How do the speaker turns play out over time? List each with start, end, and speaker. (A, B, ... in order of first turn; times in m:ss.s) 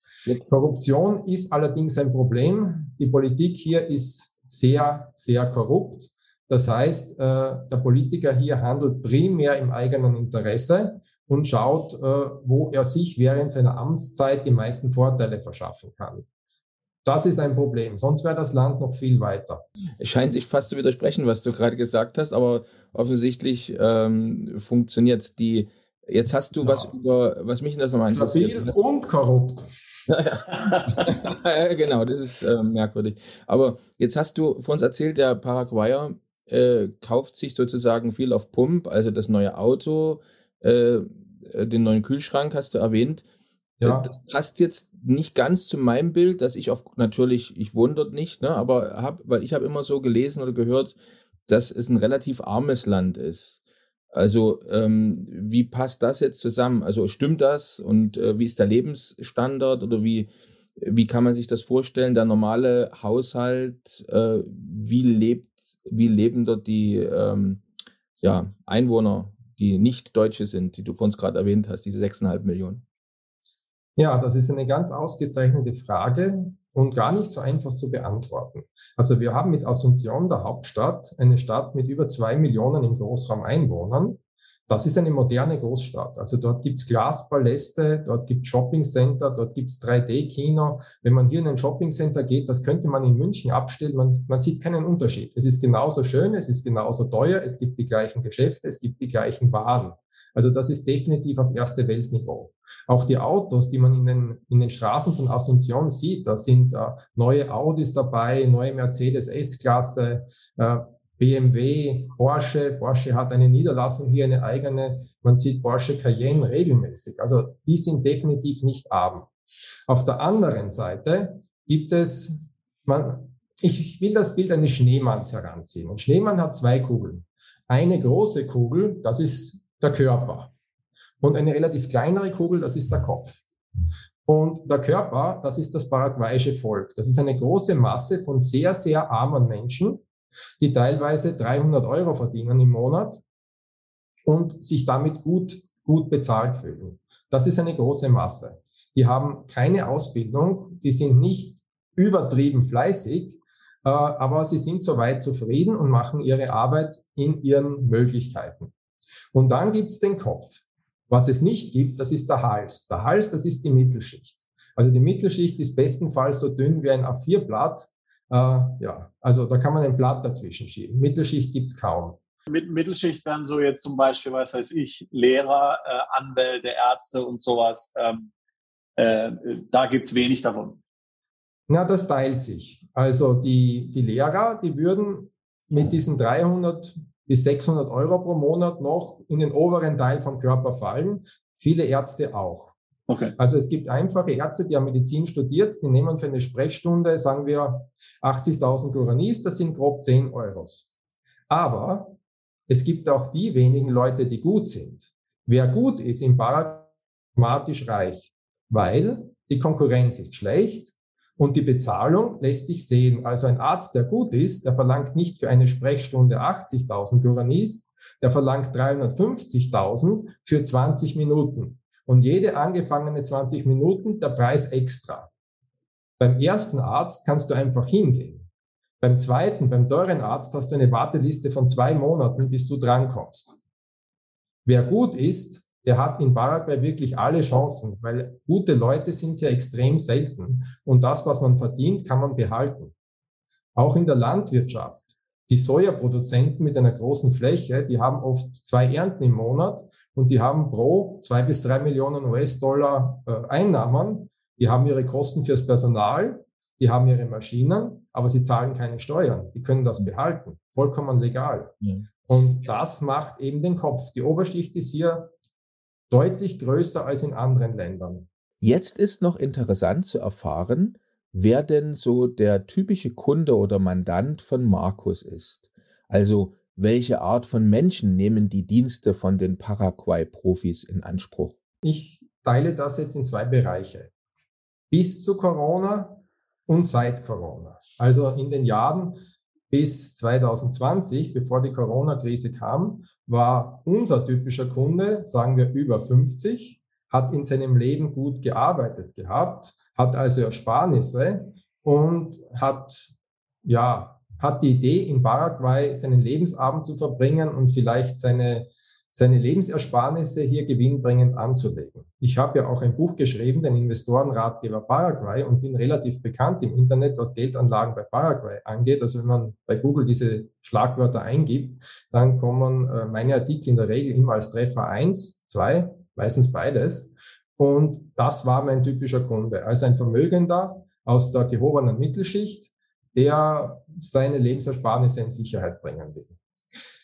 0:00.5-0:16.2 A
0:17.0-0:19.6 A
0:20.0-0:28.8 B
0:26.6-0:26.9 A
0:28.1-0:29.8 A
0:30.1-0:43.2 B
0:43.8-0:44.1 A
0:43.8-0:53.6 B
0:54.1-1:07.6 B
1:08.2-1:12.8 B
1:14.0-1:59.3 A
1:59.9-2:10.5 A
2:11.2-2:13.5 A
2:14.3-2:20.0 A
2:20.6-2:23.2 A
2:24.3-2:38.7 A
2:39.3-2:52.2 A
2:52.5-2:58.3 C
2:59.0-3:00.8 C
3:01.7-3:12.7 A
3:13.1-3:13.4 C
3:13.4-3:20.9 A
3:21.5-3:22.2 A
3:22.7-3:45.3 A
3:46.2-3:48.5 A
3:49.0-3:53.6 A
3:54.7-4:02.9 A
4:03.8-4:25.3 A
4:26.1-4:28.3 A
4:28.6-4:41.6 B
4:41.8-4:44.1 A
4:44.9-5:03.1 A
5:03.6-5:36.3 A